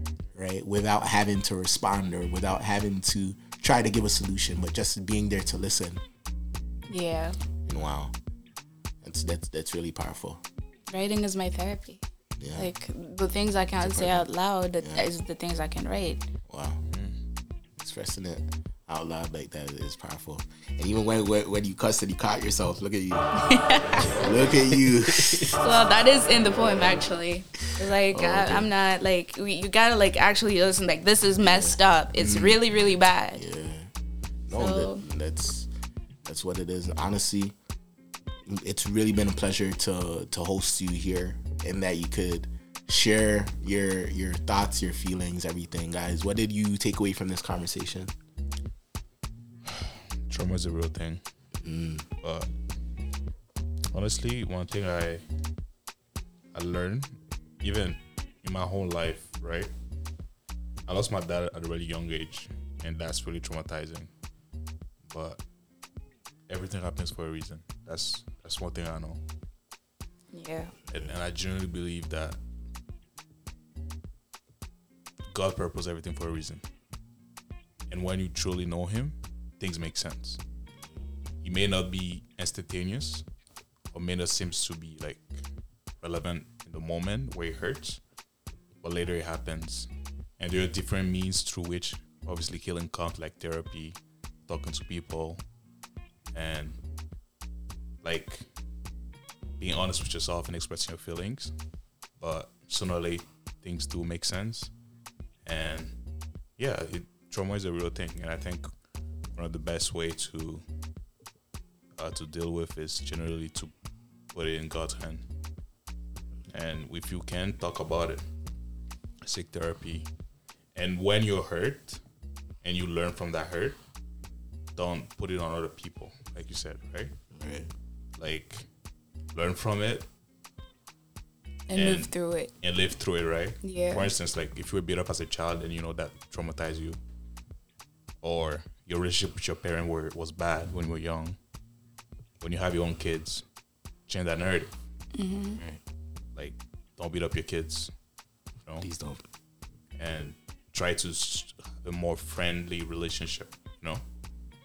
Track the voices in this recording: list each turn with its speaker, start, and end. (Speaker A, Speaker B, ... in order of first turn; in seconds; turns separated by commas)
Speaker A: 0.3-6.0, Speaker B: 6.9-7.4, Speaker A: 7.7-8.1, Speaker A: 9.0-10.4, Speaker B: 10.9-12.0, Speaker A: 12.4-12.7, Speaker B: 12.6-16.2, Speaker A: 13.8-14.3, Speaker A: 14.8-15.1, Speaker A: 16.5-16.8, Speaker C: 16.9-17.2, Speaker A: 17.8-23.3, Speaker B: 23.4-24.3, Speaker A: 23.9-25.6, Speaker B: 25.4-33.4, Speaker A: 28.1-28.7, Speaker A: 31.4-32.6, Speaker A: 33.4-33.9, Speaker A: 34.5-35.7, Speaker B: 34.5-35.0, Speaker A: 36.2-37.5, Speaker A: 38.5-48.1, Speaker C: 49.7-51.2, Speaker A: 51.6-52.1, Speaker C: 52.2-52.5, Speaker C: 53.9-55.2, Speaker C: 56.5-59.7, Speaker C: 60.9-64.1, Speaker C: 65.1-65.4, Speaker C: 66.5-69.2, Speaker B: 70.3-70.7, Speaker C: 70.9-72.4, Speaker C: 75.3-76.6, Speaker C: 77.9-80.4, Speaker C: 81.4-83.2, Speaker C: 83.9-85.4, Speaker C: 86.0-88.0, Speaker C: 88.8-95.4, Speaker C: 96.3-96.8, Speaker C: 98.0-98.5, Speaker C: 99.6-101.5, Speaker C: 102.2-104.7, Speaker C: 105.5-106.0, Speaker C: 106.6-108.7, Speaker C: 109.4-110.6, Speaker C: 112.0-113.7, Speaker C: 114.3-115.2, Speaker C: 116.5-118.2, Speaker C: 119.2-120.1, Speaker C: 120.8-122.0, Speaker C: 122.6-123.8, Speaker C: 124.8-127.1, Speaker A: 127.3-127.7, Speaker C: 128.2-128.7, Speaker C: 129.3-130.1, Speaker B: 131.7-132.5, Speaker C: 131.7-137.0, Speaker B: 133.6-134.1, Speaker C: 138.2-141.4, Speaker C: 142.4-143.4, Speaker C: 144.1-144.7, Speaker B: 145.2-145.6, Speaker C: 146.3-147.9, Speaker A: 148.8-149.2, Speaker C: 150.0-154.0